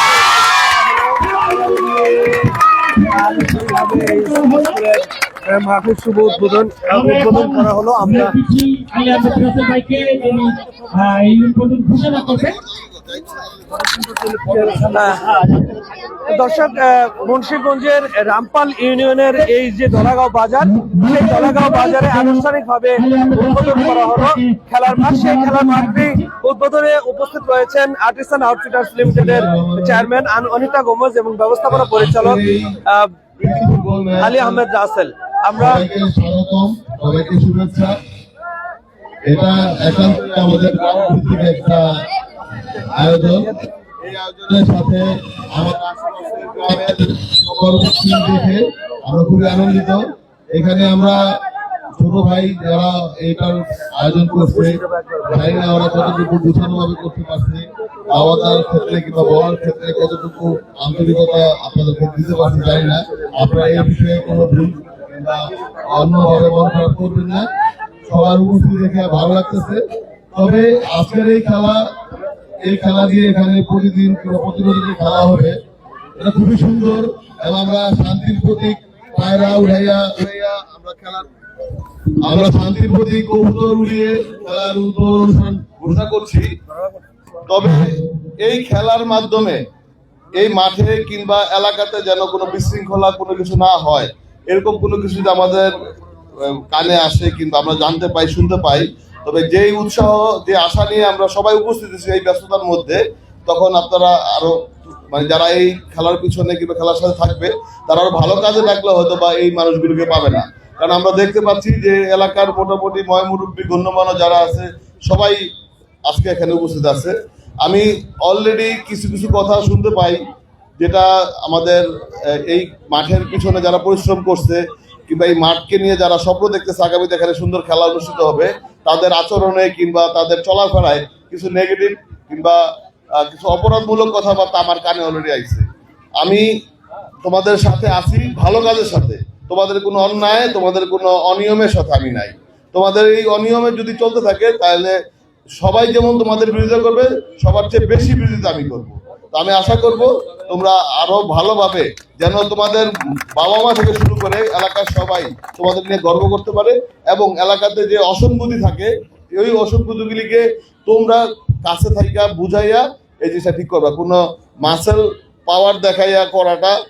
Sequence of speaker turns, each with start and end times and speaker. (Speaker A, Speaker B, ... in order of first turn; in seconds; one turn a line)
Speaker A: 1.2-4.8
Speaker B: 1.6-2.3
Speaker B: 2.9-8.3
Speaker A: 6.9-12.6
Speaker C: 12.4-14.3
Speaker A: 14.6-15.5
Speaker B: 14.7-15.3
Speaker B: 16.2-33.1
Speaker A: 20.6-22.4
Speaker A: 22.9-26.3
Speaker C: 29.0-30.0
Speaker C: 31.7-32.8
Speaker C: 33.4-34.6
Speaker B: 34.2-35.8
Speaker C: 35.5-38.0
Speaker C: 39.2-42.0
Speaker C: 42.8-51.4
Speaker C: 52.0-67.5
Speaker C: 68.0-71.9
Speaker C: 72.6-75.6
Speaker C: 76.2-81.3
Speaker C: 82.2-86.5
Speaker C: 87.5-89.6
Speaker C: 90.3-95.7
Speaker C: 96.4-104.6
Speaker C: 105.1-115.5
Speaker C: 116.0-120.2
Speaker C: 120.8-132.6
Speaker C: 133.1-135.7
Speaker C: 136.2-136.5
Speaker C: 137.2-145.0
Speaker C: 145.6-166.8